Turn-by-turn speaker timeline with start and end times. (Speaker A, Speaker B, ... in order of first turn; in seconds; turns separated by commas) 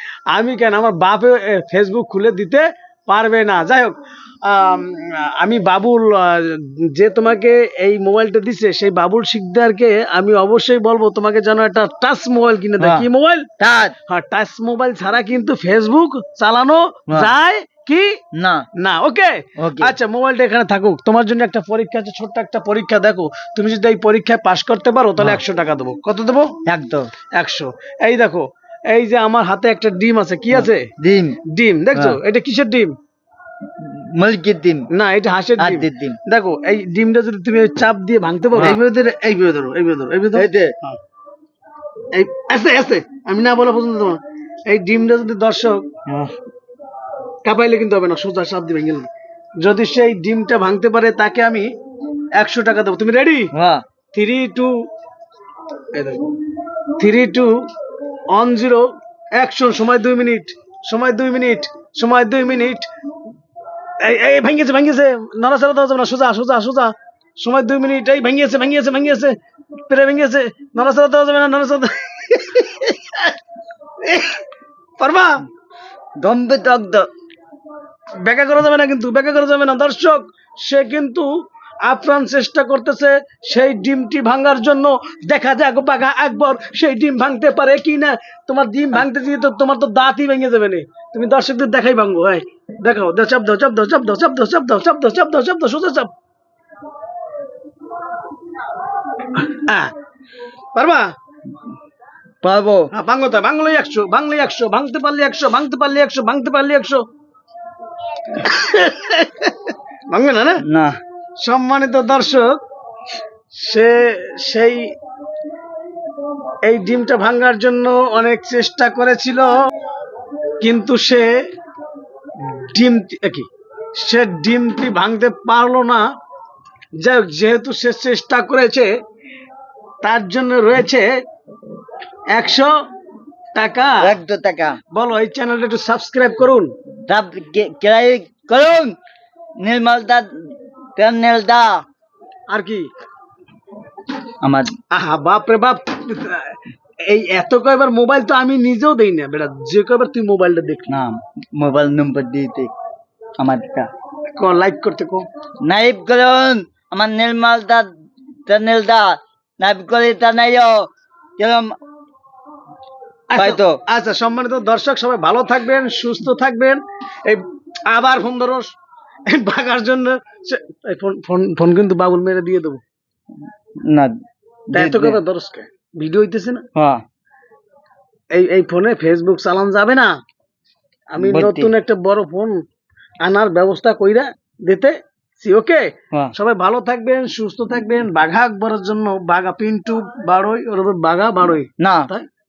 Speaker A: 0.3-13.5, Speaker B: 12.8-13.1, Speaker B: 13.6-13.9, Speaker A: 14.1-18.2, Speaker B: 18.4-18.7, Speaker A: 18.8-26.5, Speaker B: 19.6-19.9, Speaker B: 26.7-27.1, Speaker A: 27.3-30.9, Speaker B: 30.5-31.4, Speaker A: 31.5-32.9, Speaker B: 33.8-34.9, Speaker A: 34.9-41.0, Speaker B: 35.6-36.2, Speaker B: 38.6-38.8, Speaker B: 40.4-40.8, Speaker A: 42.1-46.0, Speaker A: 47.5-49.1, Speaker A: 49.6-51.7, Speaker A: 52.4-53.5, Speaker B: 53.5-53.8, Speaker A: 54.1-54.7, Speaker A: 55.9-56.3, Speaker A: 57.0-57.6, Speaker A: 58.3-62.9, Speaker A: 64.0-69.4, Speaker A: 69.9-73.3, Speaker A: 74.0-74.4, Speaker A: 75.0-75.5, Speaker B: 76.2-77.1, Speaker A: 78.2-81.3, Speaker A: 81.8-96.1, Speaker A: 99.3-99.9, Speaker A: 100.8-101.1, Speaker B: 102.4-102.9, Speaker A: 102.9-107.0, Speaker A: 108.3-110.6, Speaker B: 110.7-111.0, Speaker A: 111.4-112.5, Speaker A: 113.5-114.9, Speaker A: 116.7-119.5, Speaker A: 120.6-121.3, Speaker A: 122.5-126.0, Speaker A: 127.0-128.9, Speaker A: 130.0-131.1, Speaker A: 132.3-132.7, Speaker A: 133.5-134.1, Speaker B: 134.0-134.8, Speaker A: 134.9-136.7, Speaker B: 137.1-139.0, Speaker B: 139.6-141.8, Speaker A: 142.5-142.9, Speaker B: 144.4-144.7, Speaker A: 144.9-150.9, Speaker B: 150.9-152.7, Speaker B: 153.4-153.9, Speaker A: 154.3-155.3, Speaker B: 155.6-157.9, Speaker B: 158.5-161.7, Speaker A: 163.3-168.7, Speaker B: 163.4-163.8, Speaker A: 169.3-172.8, Speaker B: 173.8-174.2, Speaker B: 174.7-175.2, Speaker A: 174.7-176.6, Speaker B: 176.8-177.0, Speaker A: 178.3-180.1, Speaker A: 181.1-182.6, Speaker B: 181.2-181.7, Speaker A: 183.2-192.3, Speaker B: 191.8-192.1